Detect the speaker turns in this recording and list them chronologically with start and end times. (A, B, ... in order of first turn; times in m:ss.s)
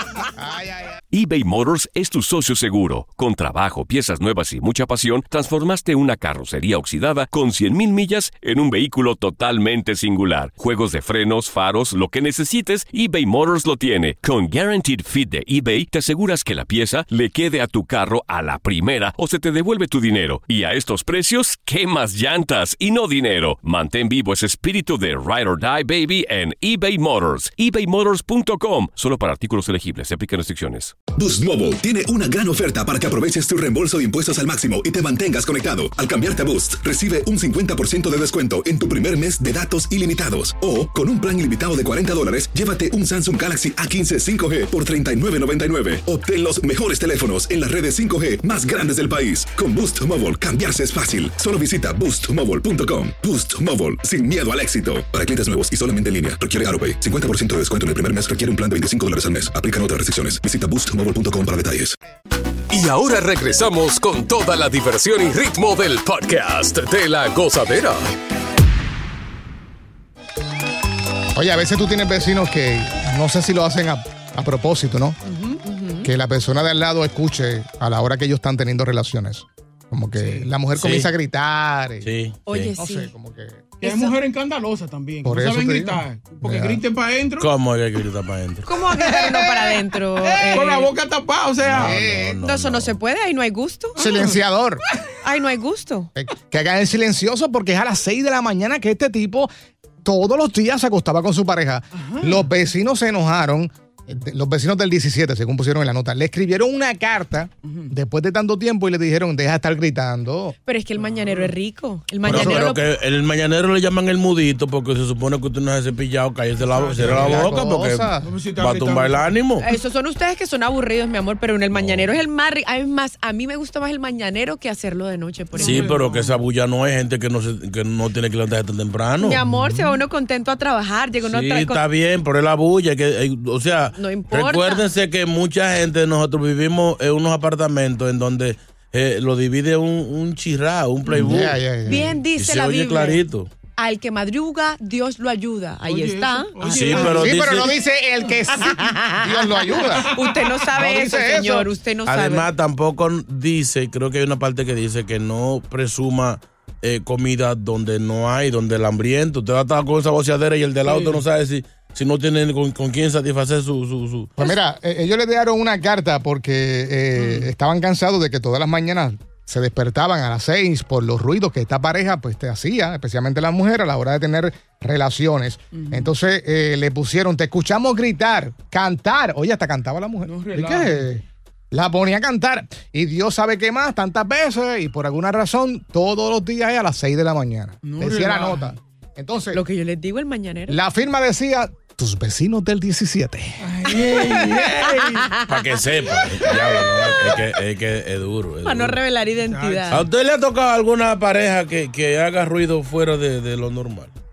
0:00.4-0:01.0 A
0:01.1-0:31.0 B
0:31.1-1:02.0 C
1:02.7-1:08.1 D
1:11.3-1:15.2 A
1:15.3-1:15.6 E
1:15.6-1:16.1 F
1:16.0-1:22.1 A
1:20.1-1:20.6 E
1:20.7-1:21.1 G
1:22.0-1:22.8 G
1:22.5-1:23.1 F
1:22.8-1:23.8 A
1:23.8-1:24.1 F
1:23.8-1:27.5 E
1:25.2-1:26.8 A
1:27.4-1:28.7 G
1:28.6-1:30.9 F
1:28.9-1:32.0 E
1:31.6-1:33.0 G
1:31.7-1:32.4 A
1:32.4-1:34.1 F
1:34.0-1:34.8 A
1:34.0-1:34.4 E
1:35.2-1:36.1 F
1:36.2-1:39.5 A
1:40.0-1:50.6 A
1:41.9-1:42.4 E
1:47.6-1:47.9 E
1:50.7-1:52.9 F
1:51.0-1:51.5 E
1:52.2-1:59.7 G
1:52.2-1:52.6 A
1:56.6-1:57.6 E
1:57.0-1:58.3 A
1:58.2-1:59.4 E
1:59.6-2:06.0 F
2:01.7-2:02.1 G
2:05.6-2:06.4 E
2:05.6-2:09.4 G
2:09.2-2:11.8 F
2:09.6-2:09.8 A
2:11.2-2:21.6 G
2:14.0-2:14.8 F
2:21.1-2:21.4 E
2:21.2-2:22.1 A
2:21.8-2:23.2 F
2:22.4-2:23.5 G
2:23.8-2:27.3 F
2:25.8-2:27.3 E
2:26.7-2:27.7 G
2:27.2-2:30.1 A
2:28.8-2:32.5 F
2:29.9-2:30.5 E
2:30.8-2:31.7 A
2:32.1-2:44.3 G
2:40.8-2:41.2 E
2:44.4-3:09.6 A
2:47.2-2:47.4 E
2:55.7-2:56.1 E
3:00.2-3:01.1 E
3:07.8-3:08.8 E
3:09.5-3:10.8 F
3:10.7-3:13.6 A
3:13.6-3:15.3 E
3:14.2-3:15.7 F
3:15.5-3:19.0 G
3:16.4-3:17.4 F
3:18.6-3:20.0 F
3:19.4-3:20.0 E
3:19.9-3:24.1 G